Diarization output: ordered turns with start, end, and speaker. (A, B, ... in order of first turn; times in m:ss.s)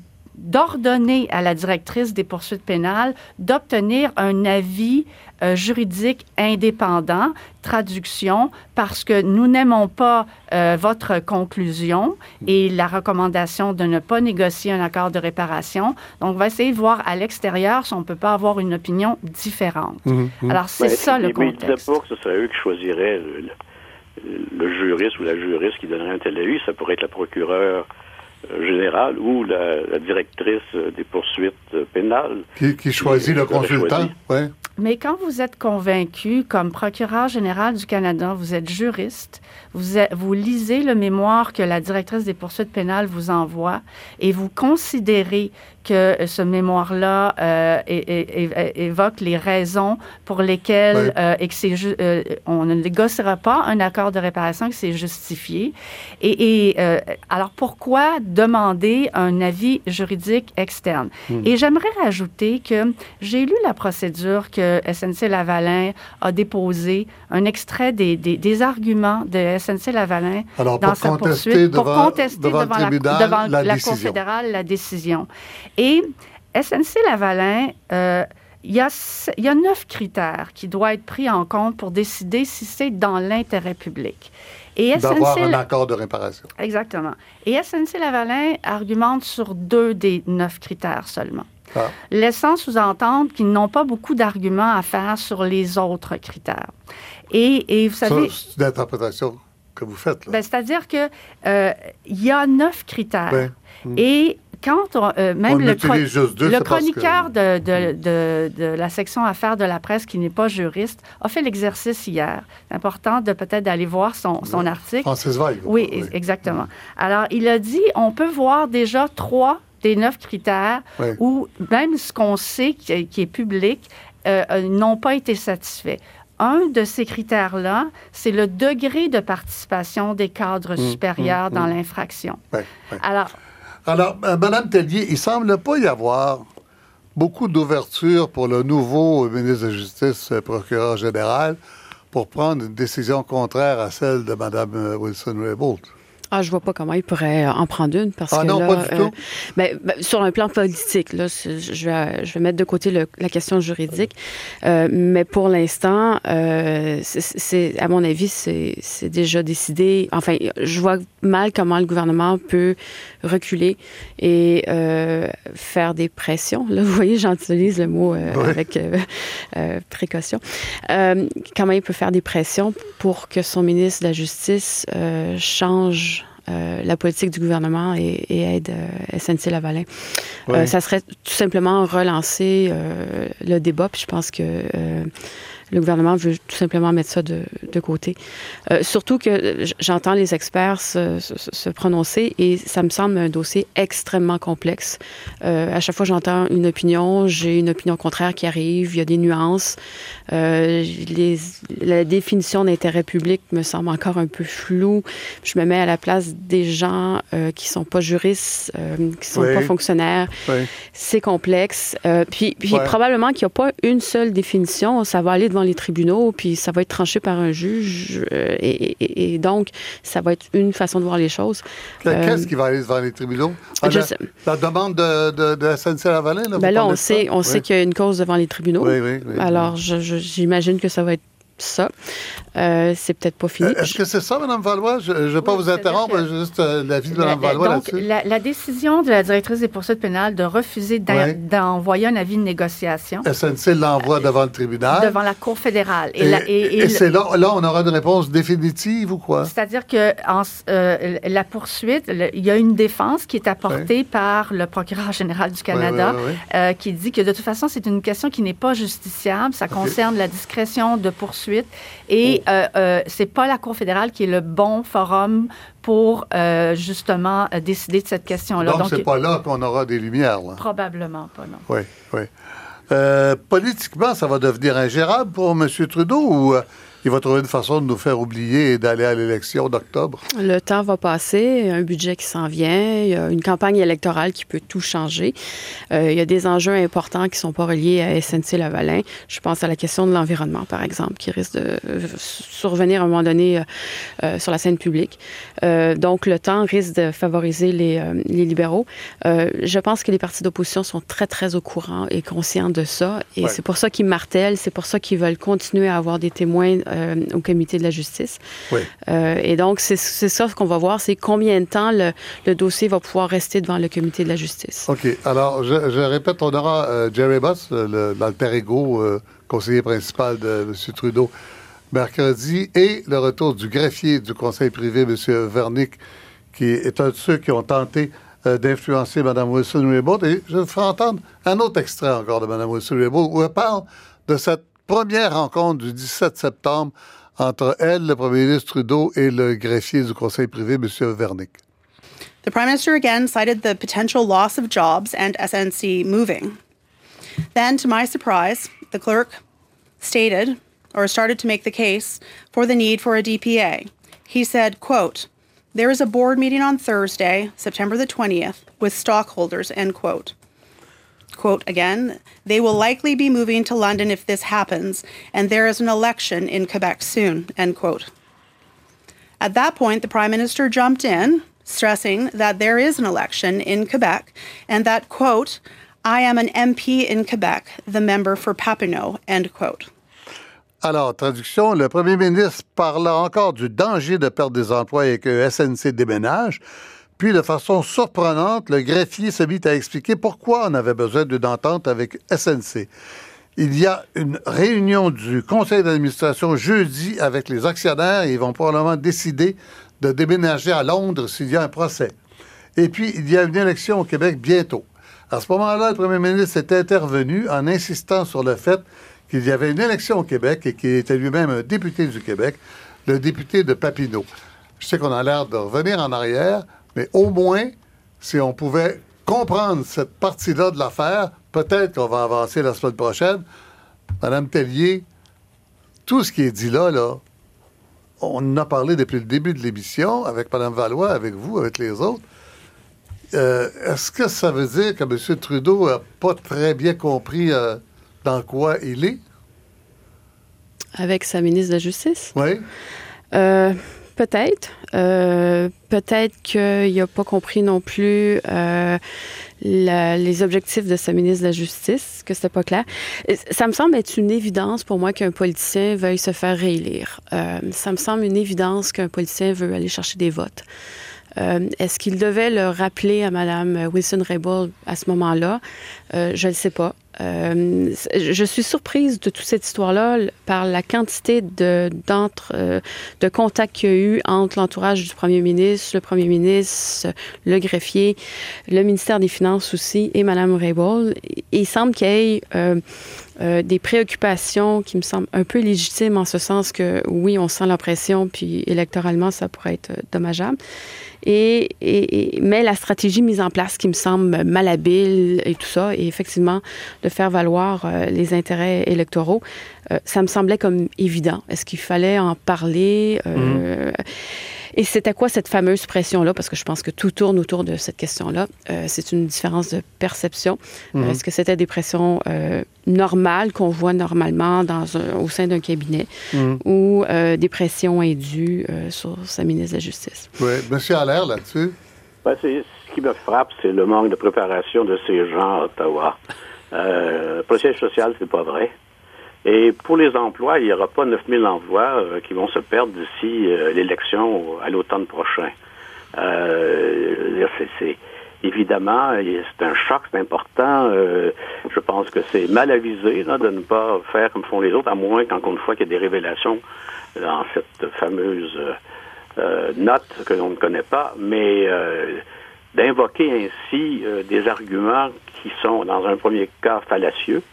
0:00.4-0:21.8 A
0:20.0-0:20.6 B
0:20.8-0:23.5 C
0:24.2-0:27.8 C
0:28.5-0:32.4 C
0:32.6-0:34.5 B
0:33.0-0:34.1 C
0:34.8-1:25.6 A
1:10.6-1:14.2 B
1:25.0-1:26.5 B
1:26.6-1:31.5 A
1:32.1-1:36.7 A
1:37.3-1:38.4 A
1:38.0-1:40.4 B
1:40.3-1:55.1 A
1:43.3-1:44.0 B
1:45.5-1:47.9 B
1:54.4-1:56.6 B
1:55.6-2:12.4 A
2:10.8-2:11.7 B
2:12.5-2:13.0 B
2:13.0-2:13.3 A
2:13.8-2:16.4 B
2:17.2-2:21.6 B
2:22.1-2:25.9 B
2:26.3-3:05.1 D
2:28.3-2:29.1 B
2:48.3-2:48.6 B
3:00.5-3:00.7 B
3:05.7-3:08.2 D
3:08.7-3:19.8 D
3:20.3-3:42.5 D
3:29.3-3:29.7 B
3:42.0-3:47.6 B
3:43.8-3:44.2 D
3:46.6-3:51.9 D
3:48.8-3:49.7 B
3:52.6-3:54.0 D
3:53.6-3:58.0 B
3:55.4-3:56.2 A
3:57.1-4:03.2 A
4:01.1-4:01.4 B
4:03.2-4:05.2 B
4:04.9-4:07.0 A
4:06.2-4:09.5 B
4:09.4-4:29.1 A
4:15.7-4:16.4 B
4:28.6-4:30.6 B
4:30.6-4:31.6 A
4:31.7-4:32.3 B
4:32.9-4:40.2 B
4:40.3-4:45.4 D
4:45.9-5:08.4 D
5:09.0-5:14.9 D
5:14.9-5:21.3 B
5:21.9-5:26.0 B
5:26.5-5:41.6 B
5:42.4-5:46.6 E
5:47.5-5:49.4 E
5:50.0-6:00.3 E
6:01.3-6:08.1 E
6:09.4-6:19.9 E
6:20.8-6:26.6 B
6:27.2-6:32.9 B
6:33.6-6:42.2 B
6:42.8-6:54.3 B
6:54.8-7:03.4 B
7:04.2-7:05.0 B
7:06.0-7:07.2 B
7:08.2-7:12.2 B
7:13.3-7:19.2 B
7:21.0-7:22.3 D
7:22.3-7:22.6 B
7:23.3-7:29.0 D
7:29.6-7:40.6 D
7:41.4-7:58.2 D
7:58.7-8:02.8 D
8:03.4-8:10.6 D
8:11.2-8:40.4 D
8:23.4-8:23.6 B
8:30.9-8:31.2 B
8:36.3-8:36.6 B
8:40.4-8:41.8 B
8:42.2-8:46.2 C
8:46.7-8:48.7 C
8:49.4-8:55.5 C
8:56.2-9:06.6 C
9:07.2-9:08.8 C
9:09.4-9:12.2 C
9:12.7-9:17.4 C